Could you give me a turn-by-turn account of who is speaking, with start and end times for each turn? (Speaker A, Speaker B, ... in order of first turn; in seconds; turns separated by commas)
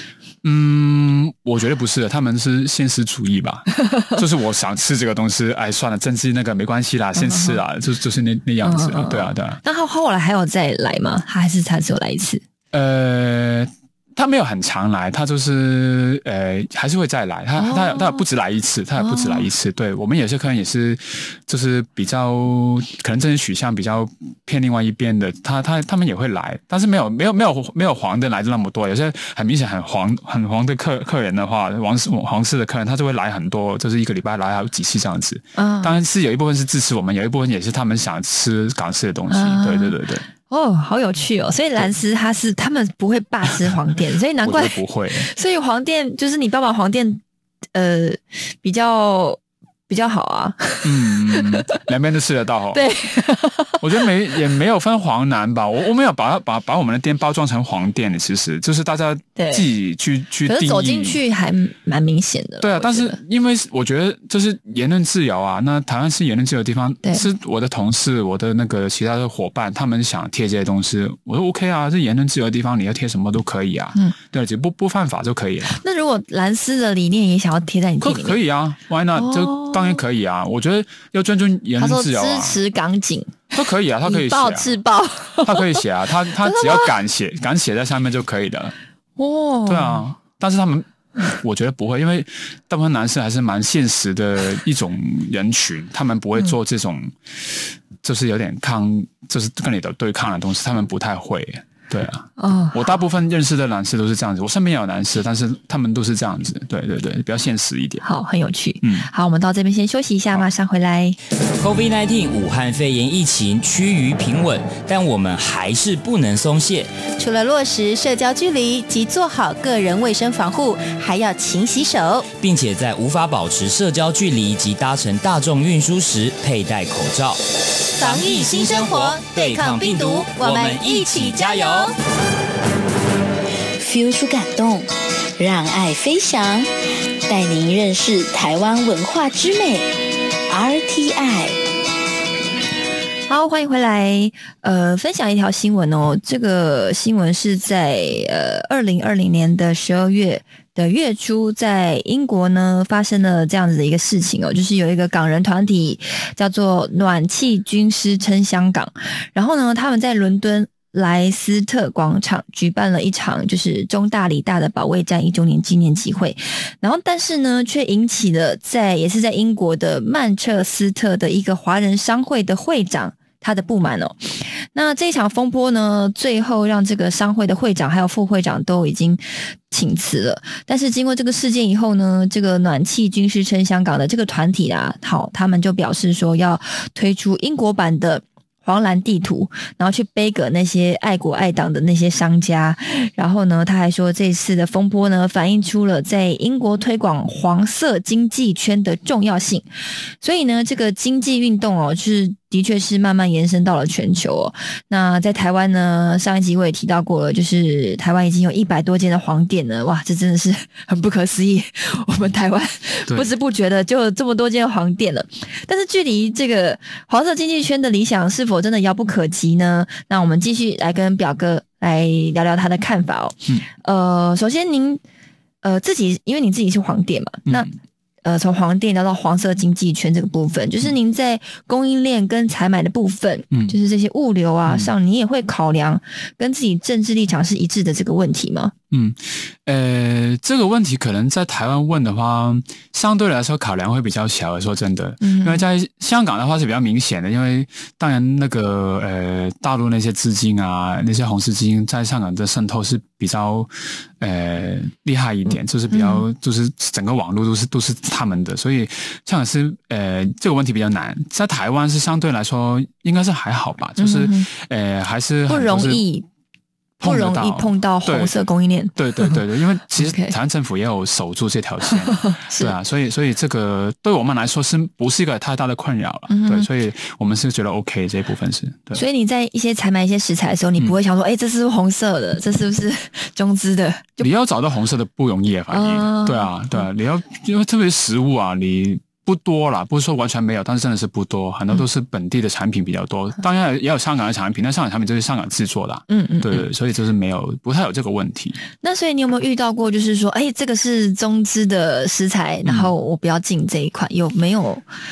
Speaker A: 0.4-9.6, Speaker B: 7.2-7.6, Speaker B: 8.6-12.4, Speaker A: 12.7-40.3, Speaker B: 17.6-18.2, Speaker B: 19.0-19.5, Speaker B: 35.5-36.0, Speaker B: 39.3-40.0, Speaker B: 40.5-47.2, Speaker A: 44.4-45.3, Speaker B: 47.7-51.8, Speaker A: 50.8-52.8, Speaker B: 52.7-54.0, Speaker A: 53.8-61.2, Speaker B: 59.4-59.6, Speaker B: 60.5-63.2, Speaker A: 62.6-75.8, Speaker B: 75.7-78.4, Speaker A: 78.0-82.6, Speaker B: 79.2-80.0, Speaker B: 81.8-85.8, Speaker A: 83.5-84.7, Speaker A: 85.4-88.8, Speaker B: 86.4-86.9, Speaker B: 89.2-90.0, Speaker A: 89.7-97.1, Speaker A: 98.0-108.0, Speaker B: 102.4-103.0, Speaker B: 108.0-111.2, Speaker A: 108.8-109.1, Speaker C: 111.6-116.9, Speaker D: 117.2-122.3, Speaker C: 122.4-127.4, Speaker C: 128.0-131.9, Speaker D: 128.0-131.9, Speaker E: 133.8-136.7, Speaker E: 137.3-139.9, Speaker E: 140.5-141.6, Speaker B: 143.3-199.7, Speaker B: 200.2-225.0, Speaker B: 225.6-227.7, Speaker A: 227.5-227.7, Speaker B: 228.2-238.7, Speaker A: 234.7-234.9, Speaker A: 238.9-266.0, Speaker B: 245.2-245.7, Speaker B: 255.9-256.2, Speaker B: 264.0-264.5, Speaker B: 265.5-266.3, Speaker A: 267.0-268.3, Speaker B: 267.0-269.4, Speaker A: 268.9-279.0, Speaker B: 270.0-270.3, Speaker B: 272.2-272.8, Speaker B: 276.3-276.7, Speaker B: 278.9-284.3, Speaker A: 284.2-298.6, Speaker B: 285.7-286.8, Speaker B: 296.1-296.7, Speaker B: 298.8-304.9, Speaker A: 302.6-302.9